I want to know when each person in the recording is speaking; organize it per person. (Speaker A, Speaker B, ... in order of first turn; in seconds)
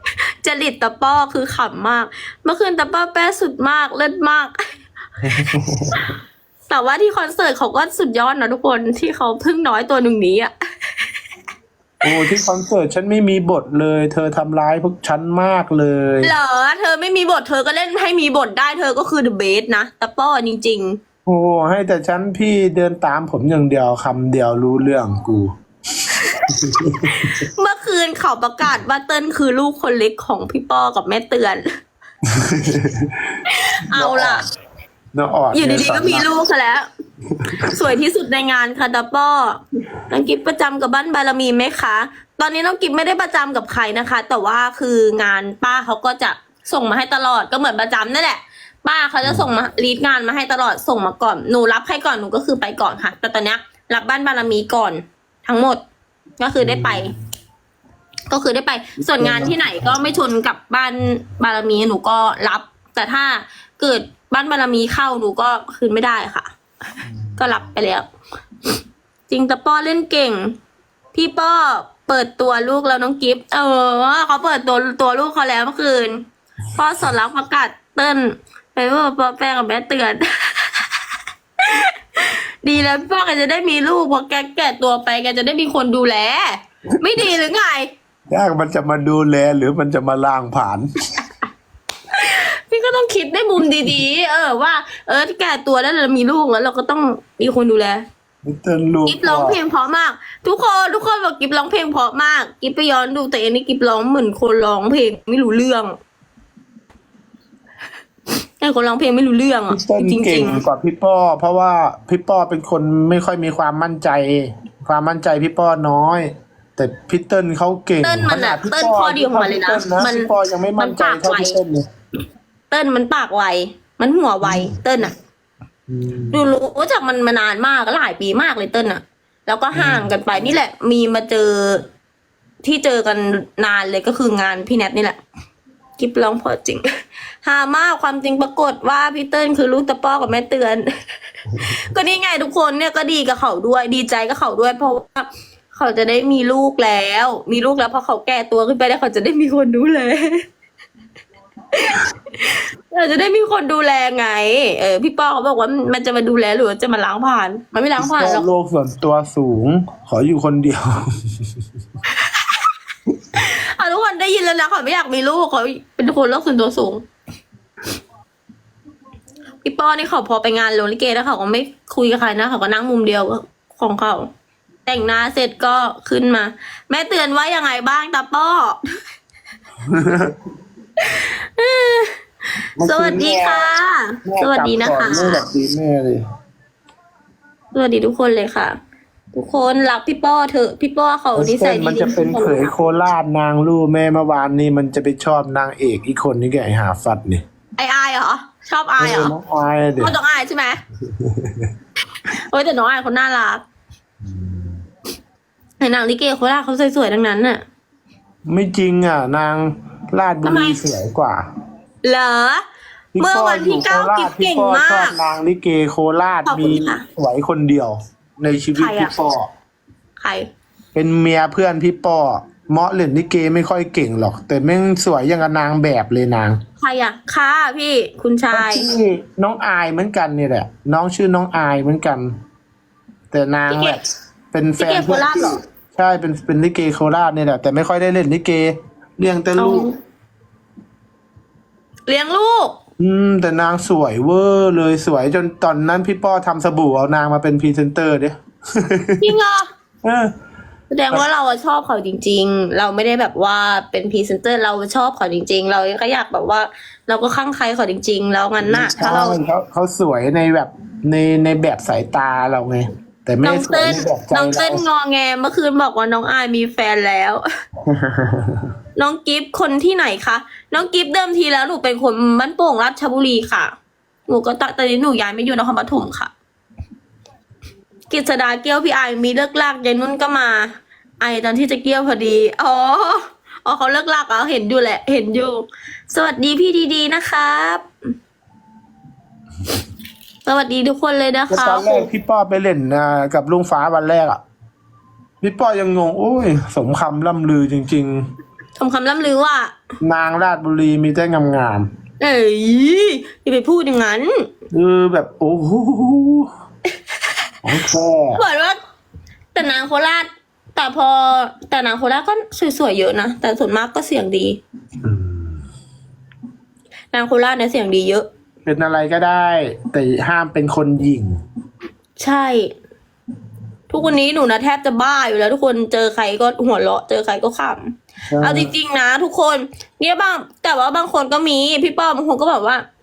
Speaker A: 0.4-4.6, 6.7-11.1, 16.2-21.0, 26.2-31.6, 33.5-34.5, 35.5-36.9, 37.6-55.8, 56.4-57.1, 58.3-66.5, 67.4-68.1, 69.3-70.5, 71.1-76.2, 76.7-81.1, 81.6-87.9, 92.1-98.0, 99.0-105.9, 108.6-110.6, 118.0-121.6, 122.7-125.1, 126.3-131.8, 132.6-135.2, 136.0-136.8, 137.4-140.9, 141.6-150.4, 151.7-158.4, 162.1-162.7, 163.3-167.0, 169.6-174.3, 174.8-178.8, 181.0-182.1, 182.8-185.4, 187.7-188.8, 189.3-192.7, 197.8-199.3, 200.0-200.8, 202.2-203.6, 205.8-207.6, 210.4-210.8, 212.0-212.6, 213.2-215.2, 216.4-217.0, 218.8-219.1, 220.2-220.5, 226.8-228.9, 233.7-234.0, 234.8-235.6, 239.6-239.9, 242.1-242.8, 249.2-249.7, 250.9-259.4, 263.4-267.4, 268.9-273.7, 274.3-276.3, 278.1-287.9, 290.4-292.1, 298.8-299.7, 302.2-304.4, 308.4-308.8, 309.5-314.6, 317.1-318.2, 322.2-322.7, 323.9-332.8
Speaker B: 5.2-6.0, 12.0-16.3, 21.2-25.5, 26.5-27.3, 32.3-33.1, 33.9-34.5, 35.1-36.2, 37.4-37.7, 56.6-57.1, 59.2-59.9, 88.3-90.9, 98.4-99.5, 109.7-121.8, 124.4-124.7, 125.9-126.5, 129.7-130.1, 158.0-160.9, 179.9-180.3, 182.8-183.7, 184.2-186.2, 191.3-197.4, 199.0-200.1, 201.1-201.7, 204.2-204.8, 208.5-211.4, 213.1-219.5, 220.9-226.6, 228.5-232.3, 233.3-234.0, 234.5-239.9, 243.0-249.3, 250.0-250.3, 258.6-264.8, 267.9-268.6, 291.5-294.4, 295.4-298.2, 300.0-301.9, 304.7-306.5, 307.6-308.4, 315.0-315.6, 318.6-321.3, 328.3-328.7